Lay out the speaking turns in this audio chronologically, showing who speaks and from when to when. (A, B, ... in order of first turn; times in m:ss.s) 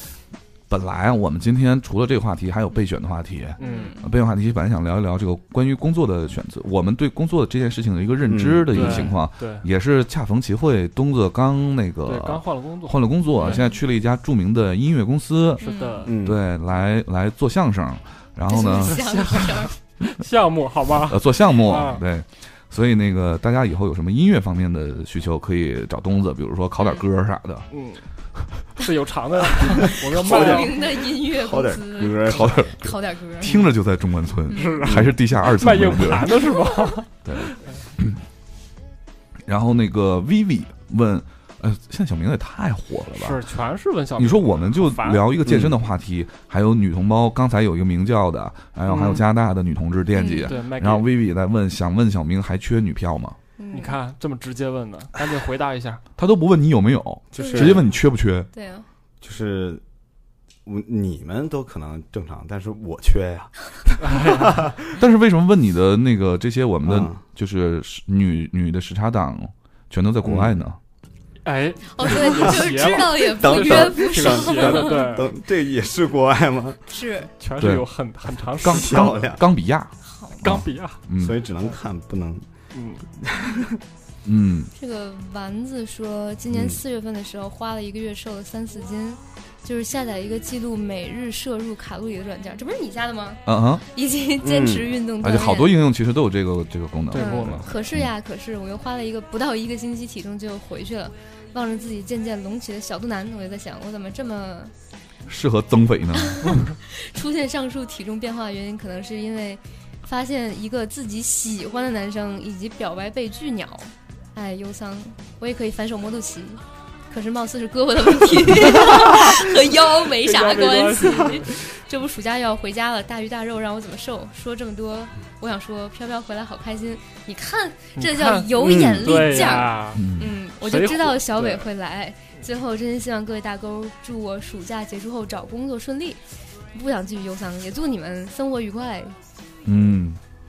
0:00.7-0:15.6 A
0:03.6-0:04.0 B
0:03.6-0:04.0 C
0:08.2-0:09.1 D
0:08.7-0:09.6 B
0:12.0-0:13.6 B
0:13.4-0:13.7 C
0:15.6-0:16.2 B
0:15.6-0:16.1 C
0:16.0-0:16.4 D
0:16.2-0:19.0 A
0:18.5-0:19.7 C
0:18.6-0:22.0 B
0:21.1-0:27.7 A
0:27.7-0:28.0 B
0:28.8-0:30.8 B
0:29.9-0:33.6 C
0:30.1-0:32.7 D
0:32.2-0:36.5 A
0:34.5-0:34.8 C
0:34.5-0:37.6 B
0:34.8-0:35.2 D
0:37.2-0:38.2 A
0:39.4-0:43.4 A
0:43.1-0:45.3 B
0:44.2-0:53.4 A
0:45.4-0:45.7 D
0:48.9-0:49.2 B
0:50.1-0:50.6 C
0:50.4-0:51.1 B
0:53.6-0:54.0 C
0:53.7-0:56.0 B
0:56.2-0:58.5 A
0:57.3-0:57.9 D
0:57.4-0:57.8 C
0:58.5-0:58.8 C
0:59.2-0:59.8 D
1:00.6-1:04.7 D
1:04.0-1:04.7 B
1:05.0-1:10.8 A
1:06.8-1:07.2 D
1:10.2-1:10.5 D
1:11.4-1:15.3 B
1:11.9-1:15.2 C
1:12.1-1:16.8 D
1:16.9-1:17.3 C
1:17.4-1:19.2 B
1:17.6-1:17.9 A
1:18.6-1:21.4 A
1:18.6-1:19.4 D
1:20.0-1:20.4 C
1:20.4-1:21.0 B
1:21.1-1:22.4 D
1:22.7-1:23.0 B
1:23.2-1:23.8 D
1:24.2-1:24.7 A
1:24.8-1:35.8 C
1:26.5-1:26.8 D
1:33.4-1:33.8 A
1:34.4-1:34.9 D
1:35.2-1:38.1 A
1:37.1-1:37.8 B
1:37.1-1:44.7 C
1:45.3-1:46.6 A
1:46.2-2:16.2 C
2:00.2-2:01.5 B
2:08.0-2:10.0 B
2:08.6-2:09.4 D
2:09.9-2:10.3 A
2:10.6-2:11.7 B
2:16.7-2:19.2 C
2:19.6-2:20.2 A